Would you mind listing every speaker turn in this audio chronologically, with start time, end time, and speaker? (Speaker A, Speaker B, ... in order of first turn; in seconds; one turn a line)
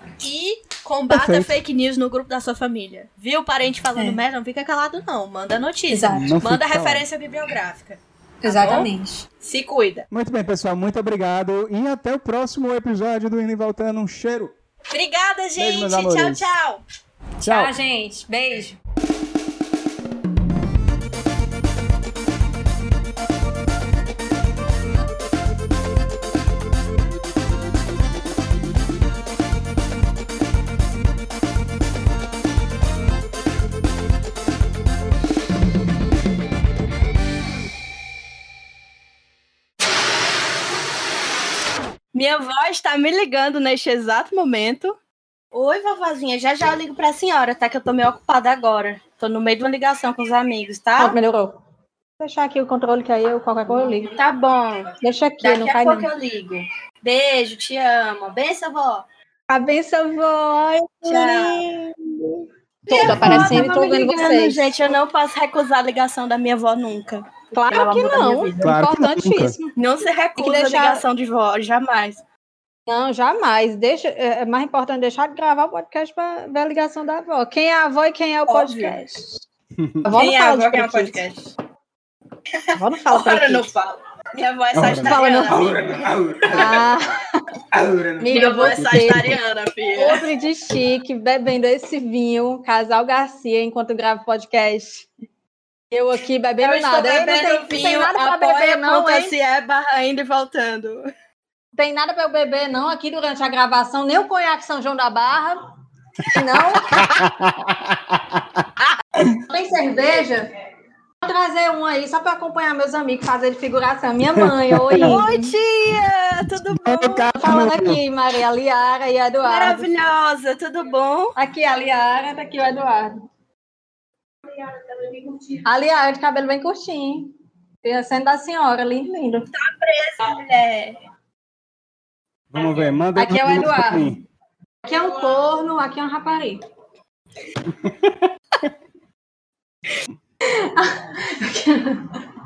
Speaker A: 0.2-10.1
Speaker B: 1.1-1.6
Speaker C: 5.9-6.3
Speaker B: 6.1-7.0
Speaker C: 8.4-9.2
Speaker B: 10.1-14.5
Speaker A: 14.9-16.8
Speaker B: 15.6-16.4
Speaker C: 17.4-18.8
Speaker B: 17.4-17.7
Speaker A: 42.1-45.0
Speaker A: 45.5-51.1
Speaker C: 51.0-51.6
Speaker C: 52.2-54.1
Speaker A: 53.8-59.0
Speaker C: 55.0-56.1
Speaker C: 59.5-62.3
Speaker A: 61.1-61.8
Speaker C: 62.9-64.7
Speaker A: 62.9-68.7
Speaker B: 63.0-63.7
Speaker C: 67.5-69.7
Speaker B: 68.6-69.5
Speaker A: 69.8-72.2
Speaker C: 70.3-71.0
Speaker C: 72.9-79.4
Speaker A: 78.5-79.0
Speaker B: 79.8-80.0
Speaker C: 80.0-81.2
Speaker A: 80.1-81.5
Speaker A: 82.6-86.0
Speaker C: 82.7-83.7
Speaker B: 84.7-86.8
Speaker C: 84.8-85.6
Speaker A: 86.5-86.8
Speaker C: 86.5-87.2
Speaker B: 87.7-89.4
Speaker C: 88.2-89.4
Speaker A: 88.3-90.2
Speaker C: 90.0-95.1
Speaker C: 95.9-99.3
Speaker A: 96.6-101.1
Speaker C: 101.8-105.6
Speaker C: 106.2-107.2
Speaker B: 106.8-108.7
Speaker C: 109.3-110.5
Speaker C: 111.2-115.5
Speaker B: 114.3-115.2
Speaker A: 115.0-117.3
Speaker B: 116.4-118.0
Speaker C: 117.3-119.9
Speaker A: 119.4-121.3
Speaker C: 121.3-123.2
Speaker C: 125.1-129.5
Speaker A: 129.5-131.0
Speaker B: 132.5-134.2
Speaker C: 133.2-134.2
Speaker C: 134.8-136.6
Speaker B: 137.8-138.1
Speaker C: 140.4-142.2